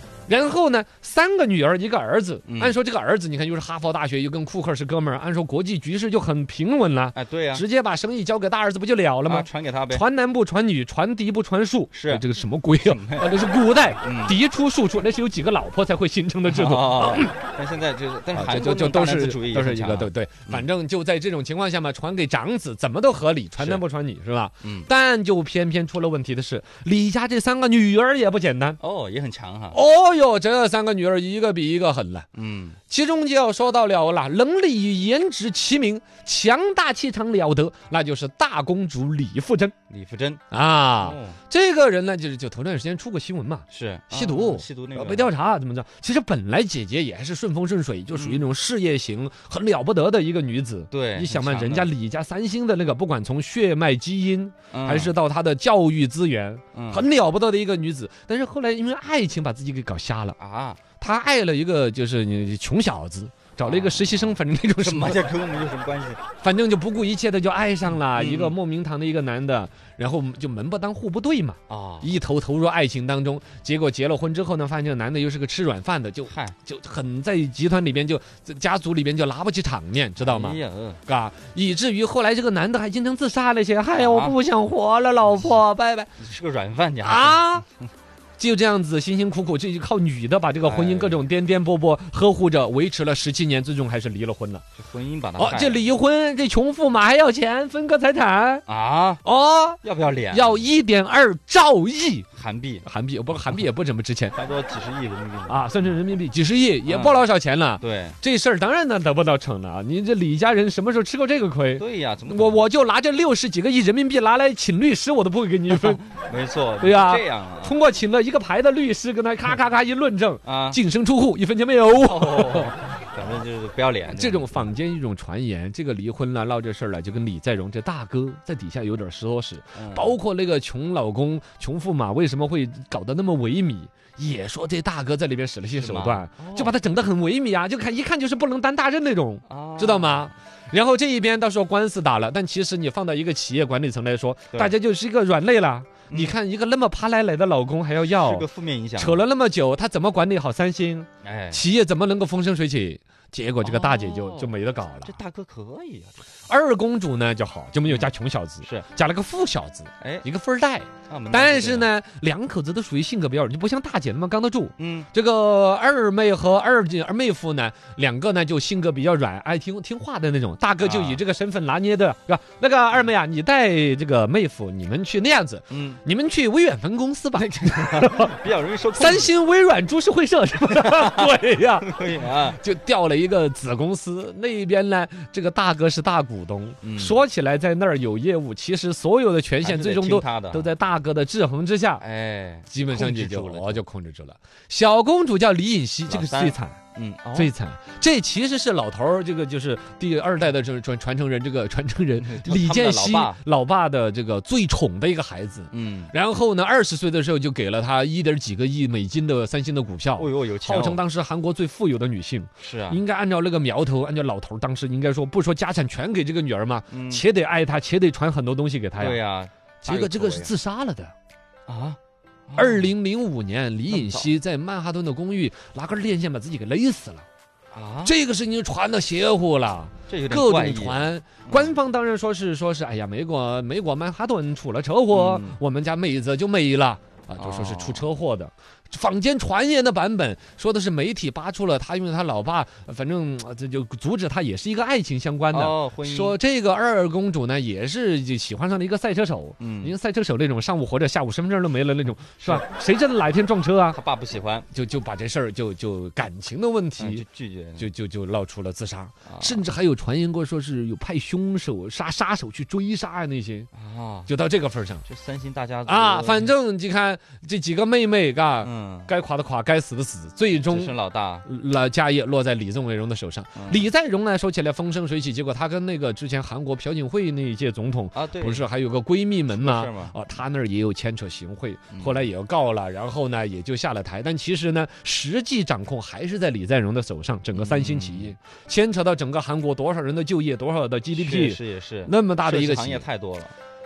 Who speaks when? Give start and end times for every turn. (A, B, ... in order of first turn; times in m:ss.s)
0:00.3-0:17.3 A
0:02.4-0:02.8 B
0:07.1-0:07.6 B
0:09.2-0:10.0 B
0:11.9-0:13.3 B
0:14.0-0:14.4 B
0:16.4-0:20.7 B
0:18.3-0:28.8 A
0:24.6-0:24.9 B
0:28.8-0:29.8 B
0:29.7-0:32.3 A
0:32.3-0:32.8 B
0:32.9-0:39.7 A
0:39.9-0:40.4 B
0:40.5-1:00.4 A
0:41.0-0:41.4 B
0:43.7-0:45.3 B
0:48.1-0:48.4 B
0:50.9-0:51.9 B
0:54.7-0:55.1 B
0:56.7-0:57.1 B
1:00.4-1:00.8 B
1:01.0-1:05.3 A
1:03.6-1:06.2 B
1:06.4-1:26.1 A
1:08.0-1:08.6 B
1:11.7-1:12.1 B
1:16.3-1:16.6 B
1:20.2-1:21.0 B
1:23.9-1:24.4 B
1:25.3-1:25.6 B
1:26.2-1:27.6 B
1:27.0-1:27.6 A
1:28.4-1:34.6 A
1:30.6-1:31.3 B
1:34.8-1:35.8 B
1:35.4-1:38.6 A
1:38.6-1:39.2 B
1:39.2-1:42.2 A
1:39.8-1:40.7 B
1:42.3-1:42.8 B
1:42.8-1:44.3 A
1:44.3-1:45.9 B
1:45.5-1:56.0 A
1:46.8-1:48.2 B
1:51.8-1:52.7 B
1:55.7-1:57.8 B
1:56.8-2:02.8 A
2:00.4-2:00.8 B
2:02.0-2:04.7 B
2:04.1-2:28.4 A
2:09.7-2:10.2 B
2:15.7-2:16.7 B
2:19.5-2:20.3 B
2:26.1-2:26.4 B
2:28.0-2:29.2 B
2:29.0-2:35.1 A
2:31.2-2:31.6 B
2:33.6-2:36.2 B
2:36.5-2:58.3 A
2:38.6-2:38.9 B
2:40.0-2:40.3 B
2:41.1-2:41.9 B
2:44.8-2:45.1 B
2:50.8-2:51.2 B
2:55.7-2:56.0 B
2:57.4-2:59.3 B
2:59.0-3:12.0 A
3:00.8-3:01.3 B
3:01.8-3:02.6 B
3:06.8-3:07.2 B
3:09.6-3:10.7 B
3:12.0-3:13.8 B
3:12.7-3:16.8 A
3:16.1-3:17.5 B
3:17.3-3:39.2 A
3:22.2-3:23.4 B
3:25.7-3:26.1 B
3:30.2-3:31.0 B
3:32.6-3:33.0 B
3:36.9-3:37.2 B
3:39.0-3:40.5 B
3:39.8-3:41.1 A
3:41.7-3:42.9 B
3:42.6-3:47.2 A
3:43.9-3:44.3 B
3:47.7-3:48.1 B
3:48.0-4:14.0 A
3:50.1-3:51.8 B
3:55.1-3:55.6 B
3:57.4-3:58.0 B
4:05.5-4:06.4 B
4:09.6-4:09.9 B
4:12.4-4:12.6 B
4:13.9-4:14.7 B
4:14.7-4:17.2 A
4:17.0-4:17.9 B
4:17.8-4:23.7 A
4:19.2-4:19.6 B
4:23.7-4:24.3 B
4:24.3-4:25.0 A
4:25.0-4:26.5 B
4:25.8-4:53.1 A
4:28.6-4:29.1 B
4:30.6-4:31.5 B
4:33.6-4:33.8 B
4:38.1-4:38.6 B
4:39.5-4:40.2 B
4:41.9-4:42.2 B
4:47.5-4:48.3 B
4:51.1-4:53.5 B